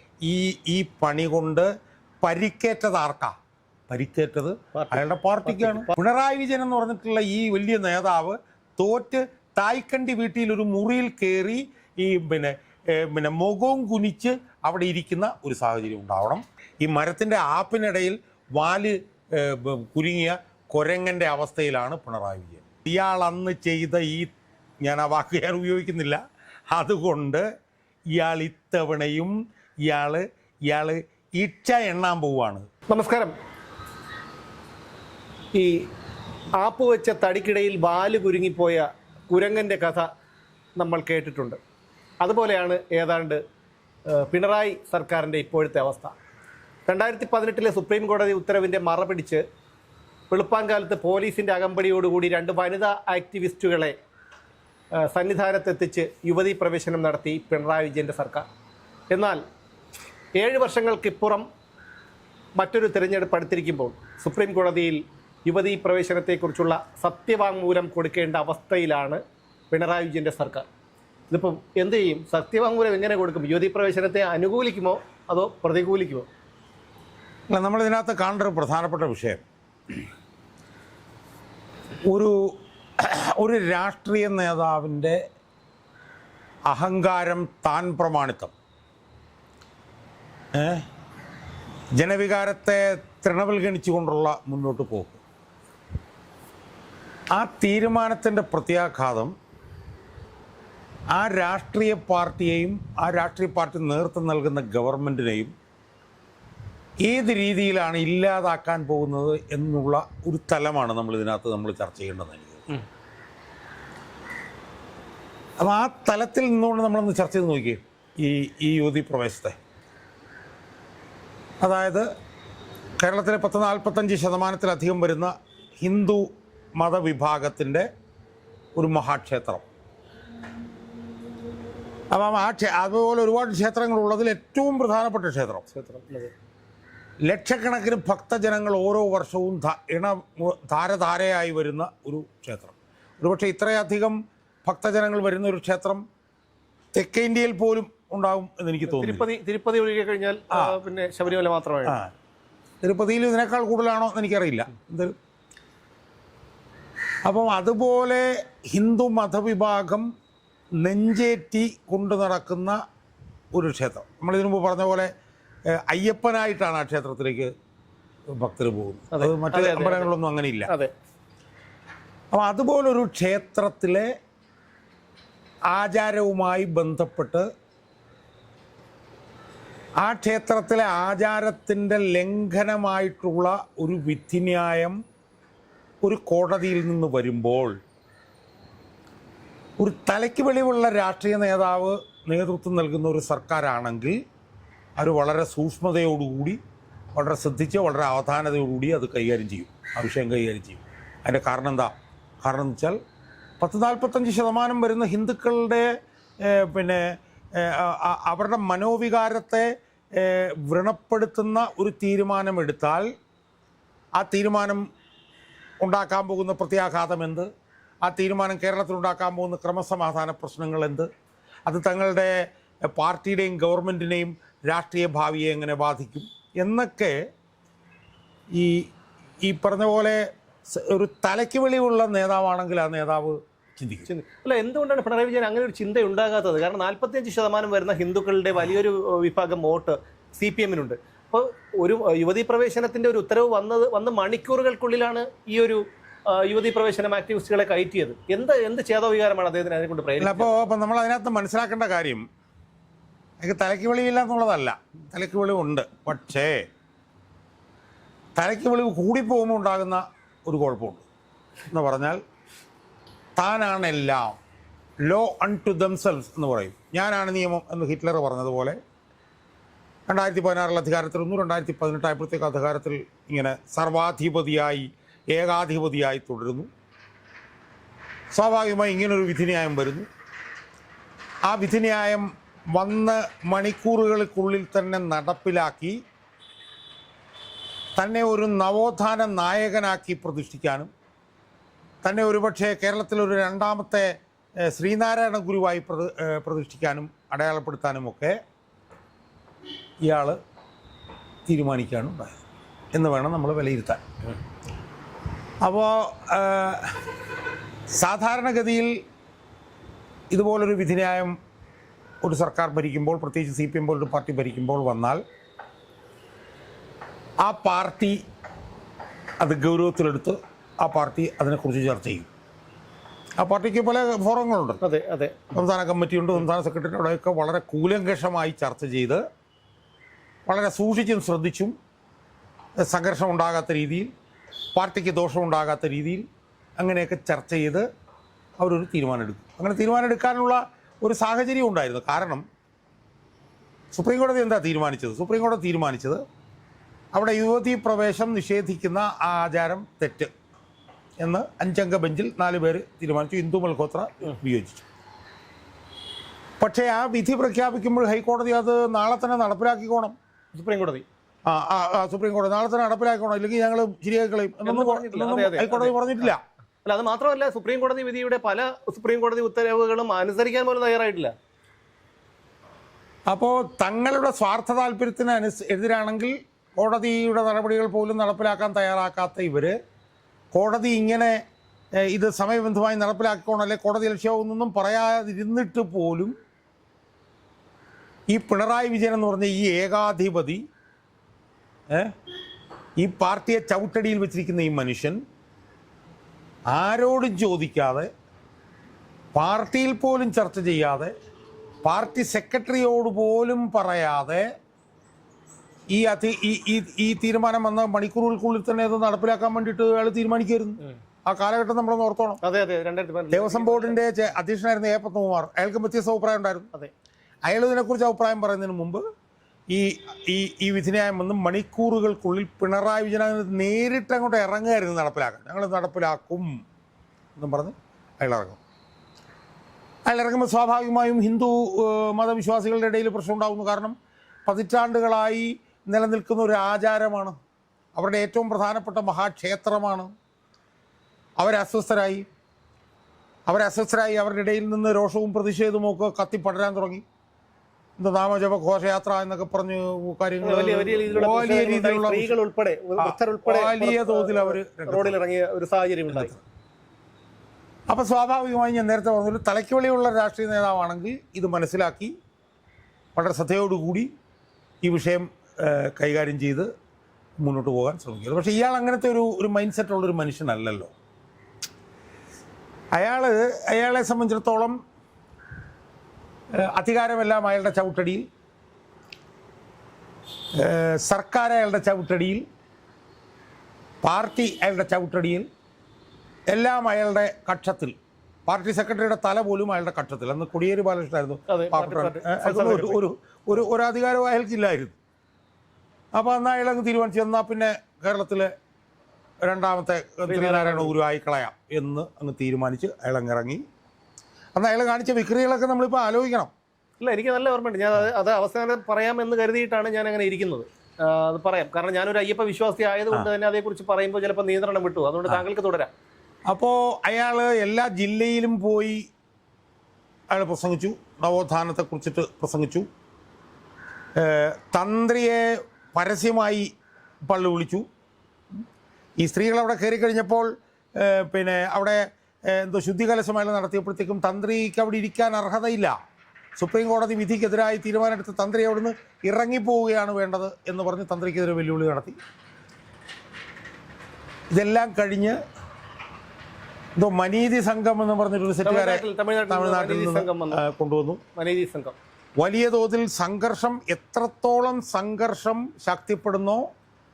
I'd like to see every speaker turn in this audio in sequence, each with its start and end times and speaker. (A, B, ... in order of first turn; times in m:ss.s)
0:00.2-0:01.7 A
0:02.2-0:03.3 A
0:03.9-0:24.3 A
0:04.7-0:05.9 B
0:24.8-0:26.2 A
0:26.7-0:27.4 A
0:28.1-0:29.3 A
0:29.8-0:32.7 A
0:32.9-0:33.3 B
0:35.5-0:35.9 B
0:36.6-0:40.1 B
0:40.8-0:41.6 B
0:42.2-0:43.4 B
0:44.1-0:46.1 B
0:46.9-0:49.4 B
0:50.3-0:54.0 B
0:55.0-0:58.5 B
0:59.1-0:59.4 B
1:00.4-1:01.5 B
1:02.6-1:09.2 B
1:09.7-1:10.7 B
1:11.3-1:16.3 B
1:17.5-1:19.4 A
1:22.1-1:25.2 A
1:26.7-1:28.5 A
1:30.5-1:30.8 A
1:32.0-1:35.2 A
1:37.3-1:39.3 A
1:41.1-1:45.5 A
1:47.0-1:52.7 A
1:55.6-1:59.6 A
2:01.6-2:02.1 A
2:03.0-2:07.9 A
2:08.8-2:09.6 A
2:12.1-2:15.6 A
2:15.7-2:16.3 B
2:17.2-2:26.0 A
2:26.9-2:29.3 A
2:28.8-2:32.0 B
2:30.5-2:30.8 A
2:31.8-2:32.1 A
2:32.8-2:35.2 A
2:37.2-2:40.1 A
2:40.8-2:42.8 A
2:43.5-2:45.1 A
2:45.7-2:47.5 A
2:48.3-2:50.7 A
2:49.1-2:50.1 B
2:52.3-2:54.1 A
2:55.7-2:57.5 A
3:00.0-3:05.0 A
3:06.0-3:07.8 A
3:09.8-3:14.2 A
3:15.0-3:16.6 A
3:17.1-3:21.9 A
3:22.4-3:23.0 A
3:23.6-3:33.1 A
3:34.2-3:34.8 A
3:35.8-3:37.5 A
3:38.0-3:41.1 A
3:41.6-3:47.2 A
3:48.5-3:48.9 A
3:49.4-3:54.1 A
3:54.1-4:10.6 B
4:10.2-4:12.2 A
4:13.4-4:16.6 A
4:18.4-4:21.0 A
4:21.7-4:22.2 A
4:23.4-4:24.4 A
4:25.0-4:28.8 A
4:30.1-4:36.7 A
4:38.3-4:40.1 A
4:41.5-4:46.0 A
4:48.0-4:50.9 A
4:52.0-4:58.4 A
5:00.0-5:00.4 A
5:01.5-5:02.4 A
5:02.9-5:04.1 A
5:05.6-5:07.0 A
5:07.9-5:09.0 A
5:10.3-5:11.4 A
5:12.2-5:15.2 A
5:17.4-5:18.2 A
5:19.4-5:22.3 A
5:23.4-5:24.8 A
5:24.8-5:25.5 B
5:25.5-5:29.2 A
5:30.5-5:31.7 A
5:32.8-5:34.1 A
5:34.8-5:36.2 A
5:36.8-5:37.9 A
5:38.6-5:42.4 A
5:43.9-5:46.2 A
5:47.1-5:50.3 A
5:51.2-5:54.8 A
5:56.6-6:00.2 A
6:00.5-6:01.0 B
6:01.5-6:06.4 A
6:04.6-6:06.3 B
6:06.8-6:11.3 B
6:13.3-6:19.7 A
6:20.5-6:21.4 A
6:22.0-6:26.3 A
6:28.3-6:30.6 A
6:33.0-6:35.2 A
6:36.7-6:38.1 A
6:39.3-6:41.1 A
6:41.8-6:44.5 A
6:45.9-6:52.4 A
6:52.4-6:54.0 B
6:53.3-6:56.7 A
6:57.4-6:59.0 A
6:59.7-7:06.5 A
7:07.4-7:08.6 A
7:10.0-7:17.4 A
7:18.0-7:20.1 A
7:21.4-7:22.2 A
7:23.5-7:27.0 A
7:28.0-7:32.3 A
7:30.4-7:36.4 B
7:33.0-7:35.2 A
7:36.1-7:36.4 A
7:37.9-7:42.1 A
7:43.2-7:44.1 A
7:44.8-7:46.7 A
7:47.4-7:50.9 A
7:52.9-7:54.8 A
7:56.5-7:58.2 A
8:00.5-8:02.4 A
8:04.0-8:05.5 A
8:06.5-8:07.9 A
8:08.5-8:14.9 A
8:11.5-8:13.0 B
8:16.1-8:18.5 A
8:19.4-8:23.6 A
8:20.3-8:20.9 B
8:24.5-8:26.5 A
8:27.0-8:35.9 B
8:36.5-8:39.0 A
8:40.3-8:42.8 A
8:44.2-8:46.7 A
8:47.3-8:47.8 A
8:49.2-8:56.0 A
8:56.6-9:02.2 A
9:04.5-9:05.4 A
9:07.0-9:11.2 A
9:08.6-9:10.6 B
9:11.4-9:12.0 B
9:12.4-9:16.6 A